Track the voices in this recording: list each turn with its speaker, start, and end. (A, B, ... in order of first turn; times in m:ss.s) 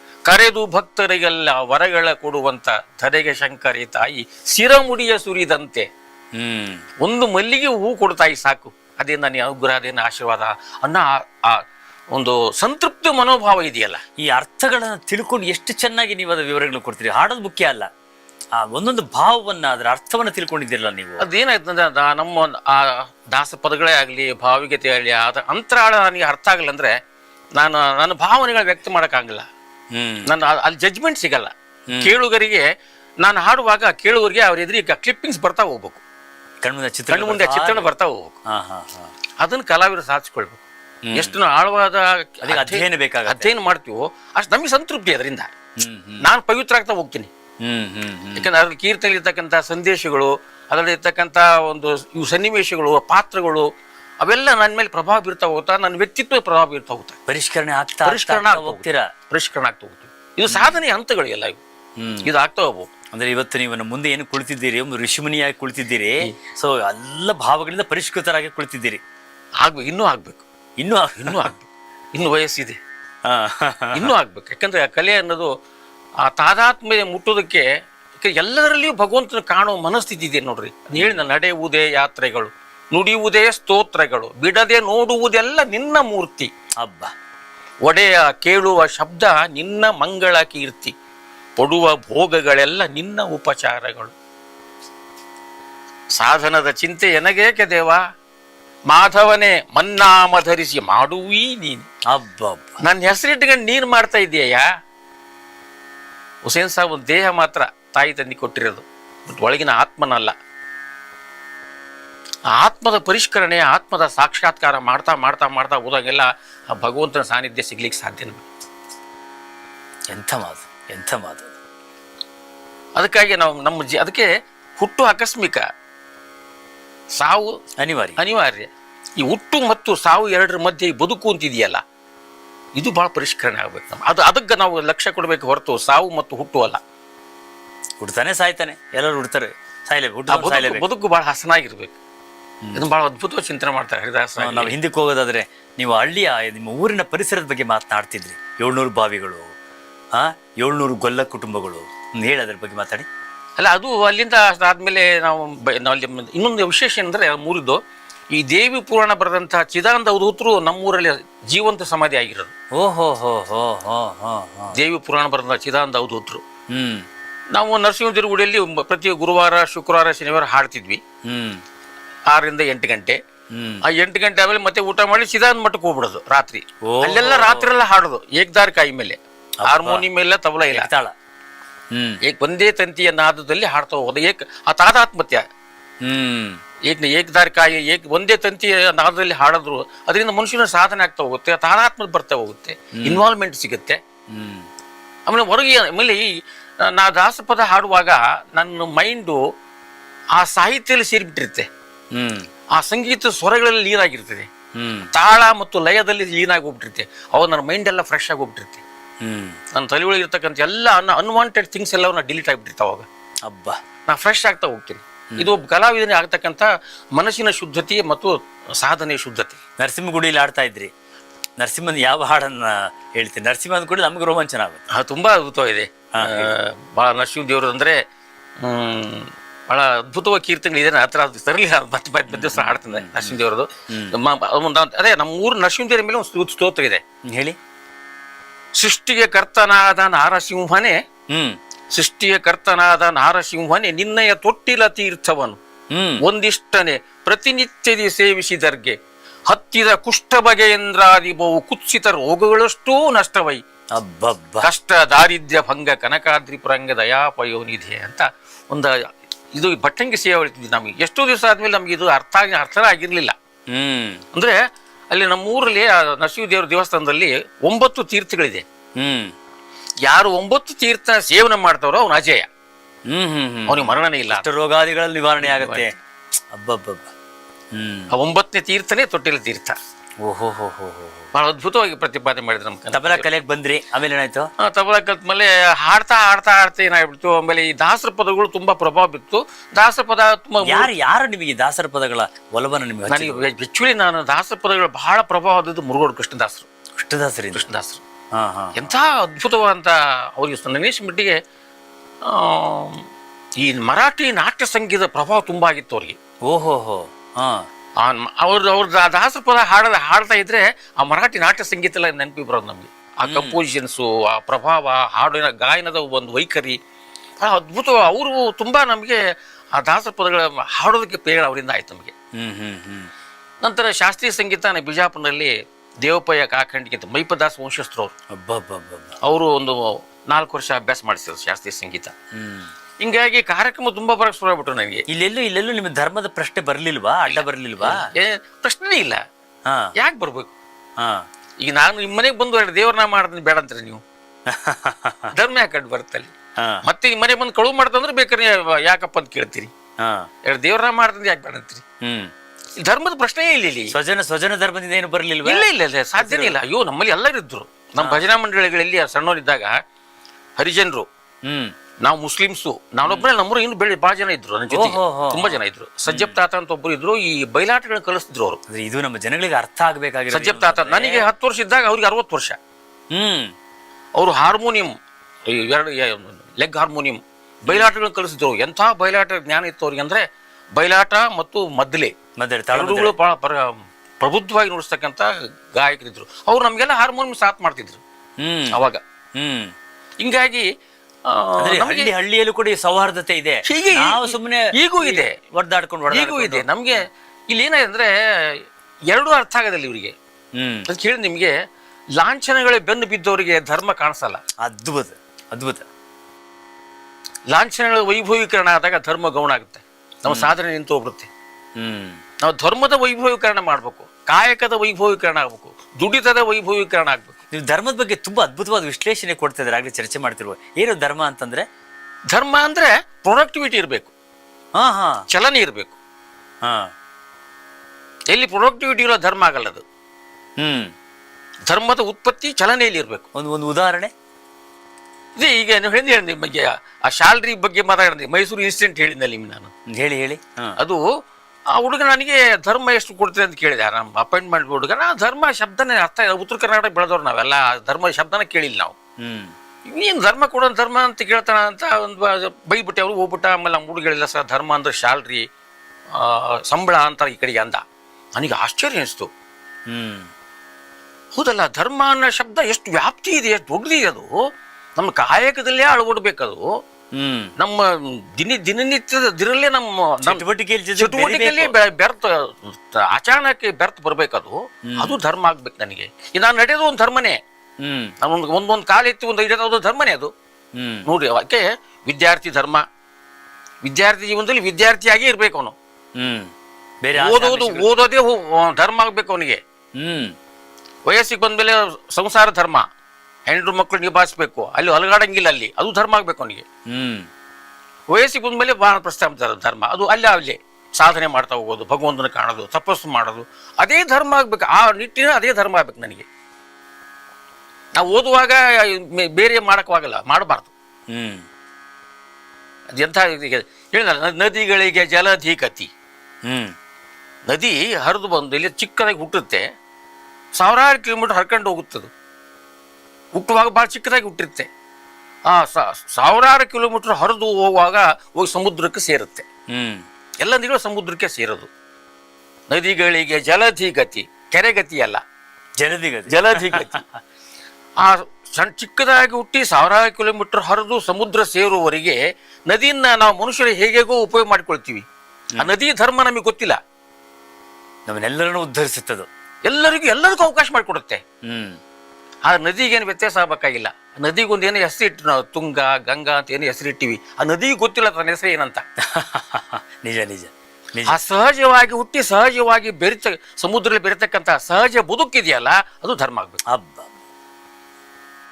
0:00.3-0:05.9 A
0:06.4-0:06.8 B
0:07.0-0:11.6 A
0:12.1-0:14.0 A
0:14.2-0:17.9 B
0:18.6-0:21.3 B
0:21.2-0:26.9 A
0:27.6-0:29.5 A
0:30.0-0:30.3 B
0:30.3-0:32.6 A
0:33.2-0:36.0 A
0:36.6-0:37.9 B
0:37.1-0:38.4 A
0:38.5-0:39.1 B
0:39.4-0:40.6 A
0:41.1-0:41.4 B
0:41.1-0:45.5 A
0:42.4-0:43.5 B
0:45.8-0:46.2 B
0:46.2-0:47.3 A
0:47.6-0:48.5 B
0:48.4-0:53.7 A
0:54.2-0:57.2 A
0:57.3-0:59.1 B
0:58.0-1:01.6 A
1:00.5-1:00.8 B
1:02.0-1:02.3 B
1:02.2-1:02.9 A
1:03.1-1:09.0 B
1:09.6-1:10.4 A
1:10.8-1:11.5 B
1:11.2-1:12.8 A
1:13.3-1:14.1 B
1:14.0-1:15.5 A
1:16.3-1:17.6 A
1:18.2-1:26.5 A
1:21.0-1:21.2 B
1:26.8-1:27.1 B
1:27.8-1:30.9 A
1:31.6-1:34.1 A
1:36.2-1:38.0 A
1:38.9-1:41.9 A
1:42.1-1:42.7 B
1:42.8-1:44.6 A
1:46.4-1:50.3 A
1:52.5-1:58.4 A
2:00.1-2:01.6 B
2:03.0-2:05.6 A
2:07.2-2:07.5 A
2:07.8-2:08.2 B
2:08.2-2:08.7 A
2:09.2-2:11.8 A
2:12.8-2:16.8 A
2:18.0-2:20.9 B
2:20.3-2:22.0 A
2:22.8-2:24.8 A
2:24.4-2:29.5 B
2:30.1-2:33.1 B
2:33.6-2:37.8 A
2:38.3-2:42.5 A
2:42.8-2:44.8 B
2:44.7-2:46.4 A
2:46.7-2:47.0 B
2:47.5-2:51.0 A
2:51.3-2:51.6 B
2:52.3-2:53.2 A
2:53.5-2:53.8 B
2:53.8-3:00.9 A
2:56.8-2:57.7 B
2:59.6-3:00.1 B
3:00.7-3:01.1 B
3:01.9-3:02.2 B
3:02.3-3:05.4 A
3:06.0-3:06.6 B
3:06.9-3:14.0 A
3:13.0-3:13.2 B
3:14.3-3:14.7 B
3:15.3-3:16.3 A
3:16.8-3:19.4 A
3:20.4-3:21.7 A
3:22.1-3:22.5 B
3:22.8-3:24.5 A
3:24.8-3:25.1 B
3:25.1-3:28.8 A
3:29.2-3:29.6 B
3:29.7-3:33.1 A
3:33.5-3:33.8 B
3:34.1-3:39.6 A
3:39.8-3:40.9 B
3:41.6-3:44.8 B
3:44.9-3:48.0 A
3:46.2-3:46.5 B
3:48.6-3:57.0 A
3:52.3-3:53.4 B
3:53.9-3:54.2 B
3:57.3-3:57.6 B
3:58.8-4:01.0 A
4:01.3-4:01.6 B
4:01.9-4:05.6 A
4:05.9-4:06.2 B
4:06.2-4:09.0 A
4:09.5-4:13.6 A
4:14.0-4:14.7 B
4:14.6-4:18.9 A
4:19.6-4:23.3 A
4:23.7-4:24.2 B
4:25.1-4:28.6 A
4:29.0-4:29.3 B
4:30.0-4:32.5 A
4:33.1-4:36.0 B
4:33.7-4:34.4 A
4:35.4-4:35.9 A
4:36.5-4:37.1 B
4:37.7-4:38.1 B
4:38.1-4:39.8 A
4:40.2-4:41.3 B
4:41.3-4:43.3 A
4:42.9-4:44.5 B
4:44.6-4:50.9 A
4:50.6-4:53.4 B
4:53.1-4:56.7 A
4:57.0-4:57.7 B
4:57.6-4:58.0 A
4:58.3-4:59.0 B
4:58.8-5:01.4 A
5:02.3-5:03.0 A
5:03.6-5:06.2 A
5:06.4-5:07.7 B
5:08.0-5:16.8 A
5:13.2-5:13.6 B
5:17.4-5:19.2 A
5:19.8-5:22.1 A
5:22.4-5:23.1 B
5:23.6-5:28.1 A
5:28.3-5:29.2 B
5:29.2-5:32.1 A
5:32.3-5:32.7 B
5:33.0-5:35.0 A
5:35.1-5:38.1 B
5:37.3-5:39.2 A
5:40.0-5:40.5 A
5:41.0-5:41.3 B
5:41.6-5:44.0 A
5:44.5-5:45.3 B
5:45.3-5:46.3 A
5:46.8-5:49.7 A
5:50.0-5:50.3 B
5:50.4-5:51.8 A
5:52.0-5:52.3 B
5:52.8-5:53.9 A
5:53.9-5:55.7 B
5:55.4-5:59.7 A
5:56.2-5:56.6 B
5:58.0-5:58.2 B
6:00.6-6:01.0 A
6:01.4-6:01.7 B
6:02.0-6:08.6 A
6:04.7-6:06.4 B
6:08.7-6:11.3 B
6:10.3-6:12.6 A
6:13.1-6:13.5 B
6:14.2-6:14.9 A
6:15.5-6:20.2 A
6:20.8-6:22.1 A
6:22.4-6:23.1 B
6:22.7-6:28.0 A
6:28.4-6:28.8 B
6:28.7-6:29.0 A
6:29.4-6:29.7 B
6:30.2-6:30.7 A
6:31.3-6:32.1 A
6:31.6-6:36.7 B
6:33.7-6:35.3 A
6:36.1-6:38.6 A
6:39.1-6:40.1 A
6:40.6-6:40.9 B
6:40.9-6:41.5 A
6:42.2-6:44.4 A
6:44.6-6:45.9 B
6:47.5-6:51.3 A
6:50.3-6:50.5 B
6:51.8-6:52.2 B
6:52.4-6:57.4 A
6:57.5-7:01.7 B
7:02.3-7:04.1 A
7:04.8-7:05.2 B
7:05.3-7:06.0 A
7:06.6-7:06.9 B
7:08.3-7:09.8 A
7:10.6-7:10.9 B
7:11.7-7:13.3 A
7:13.4-7:14.1 B
7:15.4-7:19.7 A
7:19.9-7:20.8 B
7:21.7-7:29.0 A
7:29.2-7:29.5 B
7:29.9-7:35.4 A
7:36.2-7:37.8 A
7:38.4-7:39.3 A
7:39.9-7:40.3 B
7:41.4-7:44.3 A
7:45.0-7:46.7 A
7:47.1-7:47.5 B
7:47.6-7:50.4 A
7:50.2-7:51.7 B
7:51.0-7:57.4 A
7:54.9-7:55.2 B
7:57.8-7:58.1 B
7:58.2-8:00.3 A
8:00.8-8:01.1 B
8:01.1-8:02.8 A
8:03.8-8:05.8 A
8:06.2-8:06.5 B
8:07.0-8:07.9 B
8:07.2-8:09.6 A
8:10.0-8:10.3 B
8:11.1-8:12.8 A
8:13.5-8:16.6 A
8:16.9-8:17.3 B
8:18.1-8:26.3 A
8:27.9-8:30.7 A
8:31.1-8:31.4 B
8:32.9-8:35.9 A
8:36.5-8:36.8 B
8:37.5-8:39.6 A
8:40.6-8:42.1 A
8:43.4-8:44.7 A
8:45.5-8:49.5 A
8:49.7-8:50.0 B
8:50.4-8:51.7 A
8:52.7-8:55.2 A
8:55.8-8:57.0 B
8:56.3-8:57.0 A
8:58.0-9:05.1 A
9:05.6-9:06.8 A
9:08.1-9:09.3 B
9:09.6-9:11.2 A
9:11.4-9:11.8 B
9:12.5-9:18.8 A
9:19.1-9:21.2 B
9:21.1-9:26.6 A
9:26.7-9:27.1 B